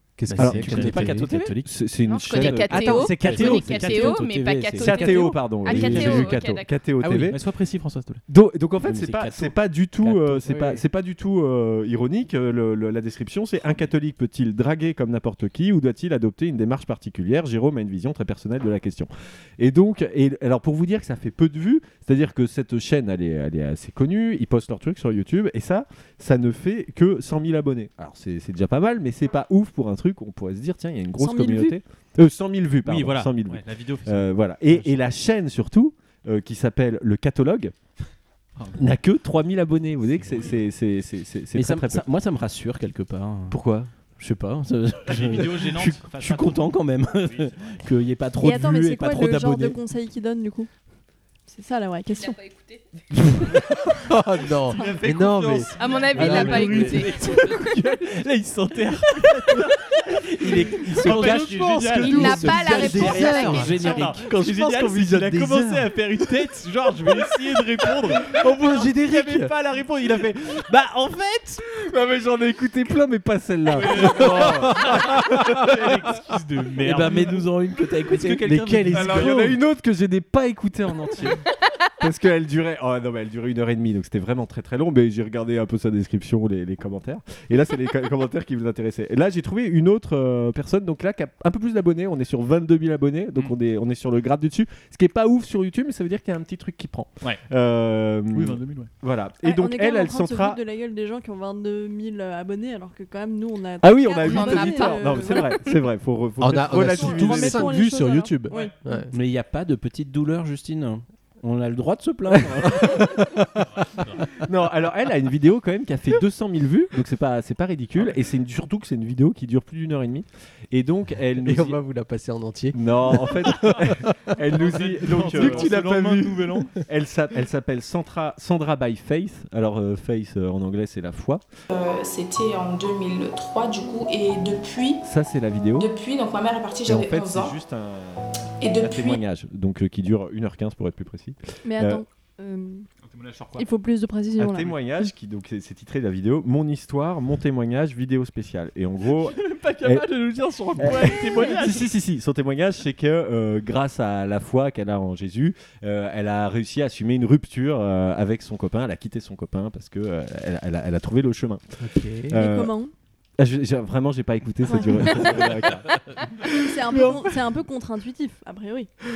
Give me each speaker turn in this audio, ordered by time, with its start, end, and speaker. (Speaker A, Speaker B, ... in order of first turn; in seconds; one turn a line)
Speaker A: 0.2-1.3
Speaker B: 0.3-1.7
Speaker C: 0.3-1.6
Speaker D: 0.4-3.5
Speaker E: 2.0-6.7
Speaker B: 2.4-6.3
Speaker C: 2.7-4.2
Speaker D: 4.8-7.4
Speaker C: 7.0-8.2
Speaker D: 8.3-37.7
Speaker B: 8.8-10.8
Speaker F: 31.2-31.8
Speaker C: 32.8-34.9
Speaker D: 38.8-42.0
Speaker C: 40.2-40.5
Speaker B: 41.5-43.6
Speaker D: 43.5-43.9
Speaker B: 44.2-49.8
Speaker C: 45.1-46.7
Speaker C: 47.2-47.7
Speaker F: 48.4-50.7
Speaker F: 51.5-52.4
Speaker E: 52.1-52.8
Speaker A: 53.4-57.0
Speaker C: 54.7-71.6
Speaker E: 55.8-57.3
Speaker B: 56.2-57.4
Speaker B: 60.4-64.3
Speaker A: 60.8-65.9
Speaker E: 62.0-63.9
Speaker A: 68.2-69.5
Speaker D: 71.7-75.7
Speaker C: 73.7-79.3
Speaker A: 74.1-74.9
Speaker B: 76.8-79.2
Speaker A: 76.9-77.4
Speaker A: 78.2-79.6
Speaker D: 78.9-81.4
Speaker D: 82.0-100.6
Speaker C: 98.3-98.9
Speaker F: 99.4-105.5
Speaker D: 103.8-107.8
Speaker E: 104.1-105.7
Speaker A: 106.4-109.1
Speaker F: 106.8-109.0
Speaker C: 108.5-108.7
Speaker B: 109.1-113.0
Speaker D: 114.4-121.8
Speaker A: 121.4-123.9
Speaker D: 122.7-131.4
Speaker C: 124.5-126.8
Speaker A: 125.3-125.7
Speaker G: 131.7-135.0
Speaker D: 135.0-135.9
Speaker G: 135.8-137.6
Speaker D: 136.8-142.0
Speaker G: 138.6-139.2
Speaker F: 141.6-142.9
Speaker C: 143.0-143.7
Speaker F: 143.6-145.1
Speaker D: 144.4-150.1
Speaker C: 149.1-151.9
Speaker D: 150.8-161.6
Speaker A: 161.8-162.4
Speaker D: 162.3-162.7
Speaker F: 162.3-162.9
Speaker D: 163.4-165.9
Speaker F: 164.7-165.1
Speaker F: 166.4-168.9